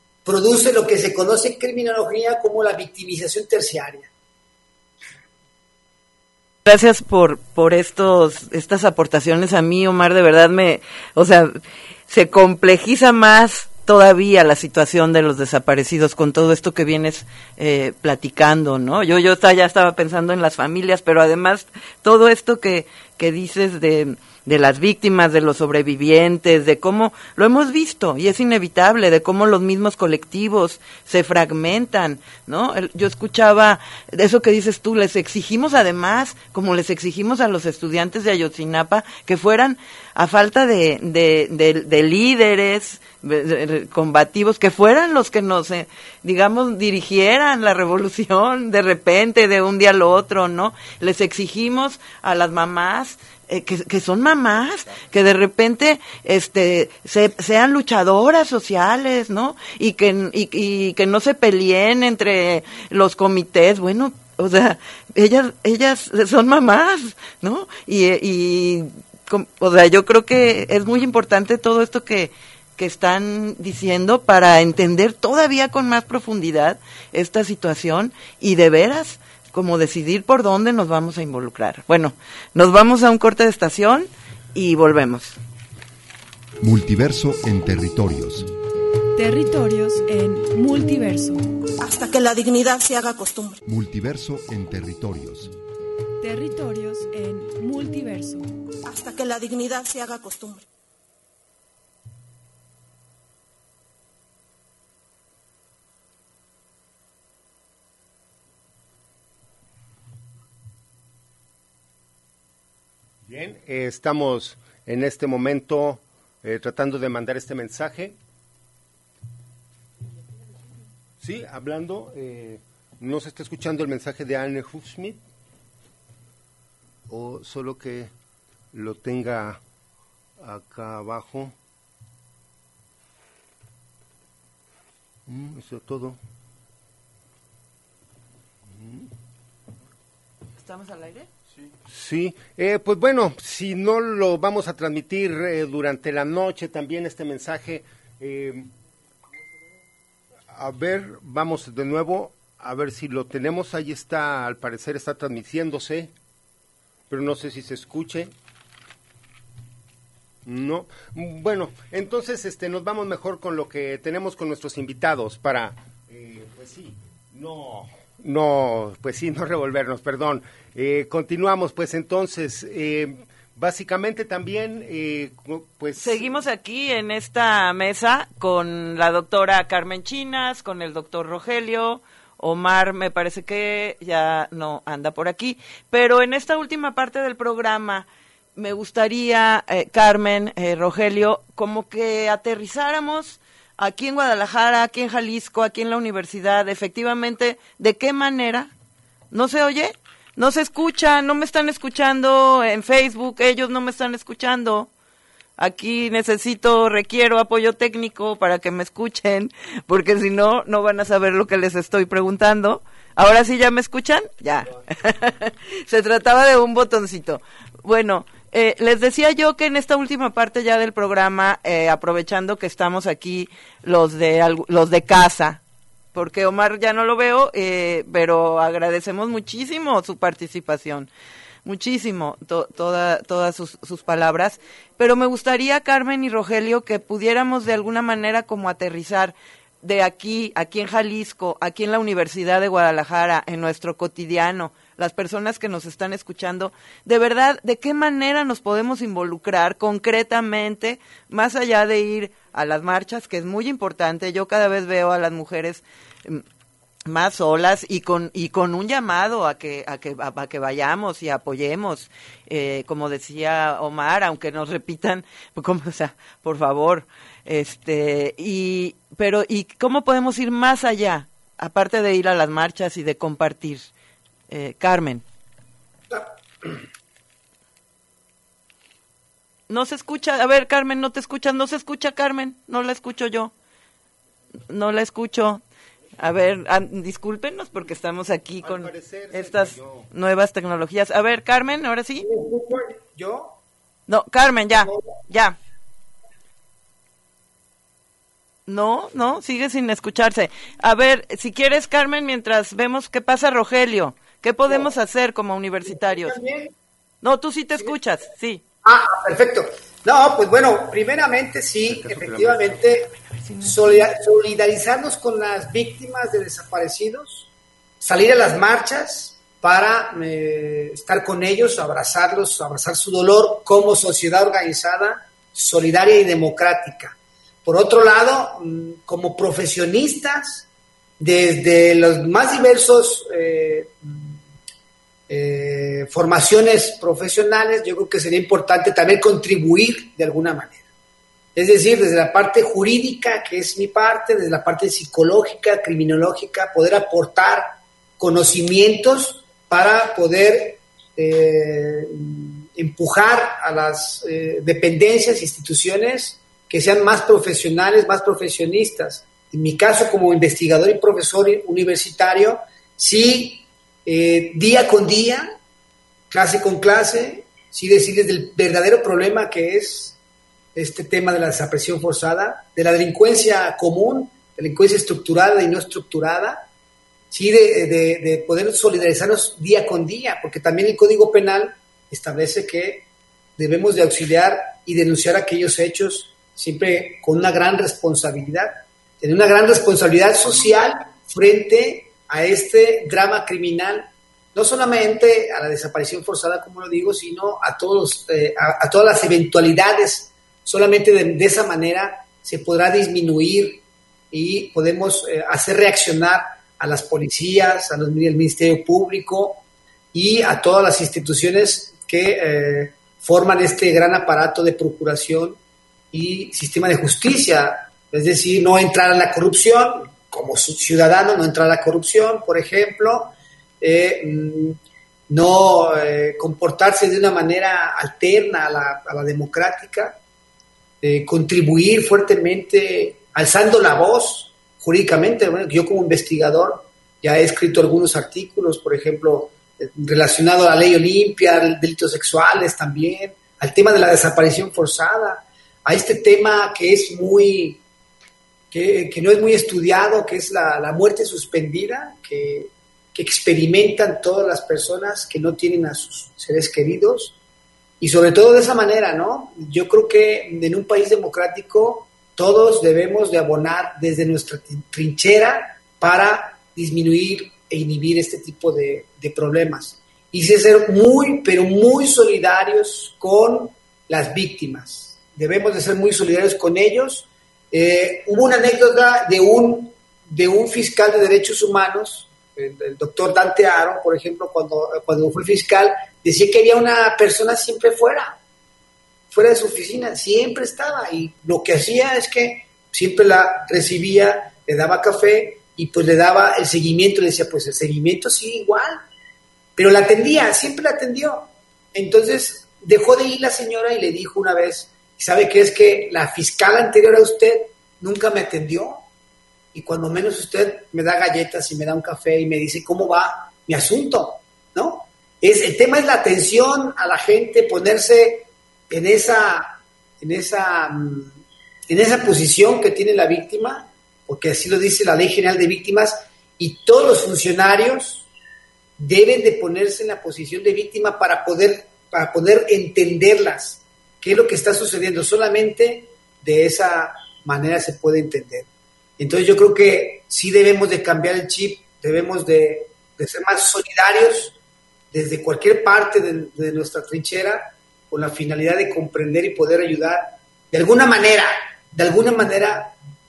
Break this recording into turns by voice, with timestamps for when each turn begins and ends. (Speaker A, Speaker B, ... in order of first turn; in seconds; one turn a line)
Speaker A: 0.2-4.1
Speaker B: 6.7-85.4
Speaker C: 86.6-88.5
Speaker D: 89.2-91.5
Speaker E: 91.8-93.6
Speaker C: 93.6-95.5
Speaker D: 96.2-98.5
Speaker E: 98.8-100.6
Speaker F: 113.2-118.2
Speaker F: 121.2-125.2
Speaker F: 127.1-128.1
Speaker F: 128.7-129.6
Speaker F: 130.4-131.5
Speaker F: 135.3-136.2
Speaker F: 138.7-139.1
Speaker B: 140.6-141.3
Speaker F: 141.9-148.7
Speaker F: 150.5-156.1
Speaker F: 157.1-158.3
Speaker F: 160.4-176.4
Speaker B: 175.9-198.7
Speaker B: 199.3-204.9
Speaker B: 205.6-225.6
Speaker B: 226.1-231.1
Speaker B: 231.6-256.4
Speaker B: 257.1-273.9
Speaker B: 274.5-275.2
Speaker A: 276.1-276.8
Speaker B: 279.7-283.5
Speaker B: 284.7-285.6
Speaker B: 286.2-292.3
Speaker F: 288.6-290.1
Speaker A: 292.2-293.6
Speaker B: 294.1-295.6
Speaker B: 298.7-306.4
Speaker A: 305.9-306.7
Speaker B: 307.2-308.6
Speaker A: 308.8-313.1
Speaker F: 311.9-312.8
Speaker A: 313.6-317.5
Speaker A: 318.0-330.7
Speaker A: 331.2-334.4
Speaker A: 335.3-340.8
Speaker A: 341.5-365.4
Speaker A: 366.3-370.2
Speaker A: 370.7-376.6
Speaker A: 377.3-383.0
Speaker A: 383.6-409.6
Speaker A: 410.1-415.6
Speaker A: 416.1-424.8
Speaker A: 425.3-430.2
Speaker A: 431.0-447.8
Speaker A: 448.7-457.3
Speaker A: 458.0-488.4
Speaker A: 489.3-499.0
Speaker A: 499.8-509.0
Speaker A: 509.7-521.3
Speaker A: 521.9-528.3
Speaker A: 529.0-538.7
Speaker A: 539.2-544.6
Speaker A: 545.1-552.9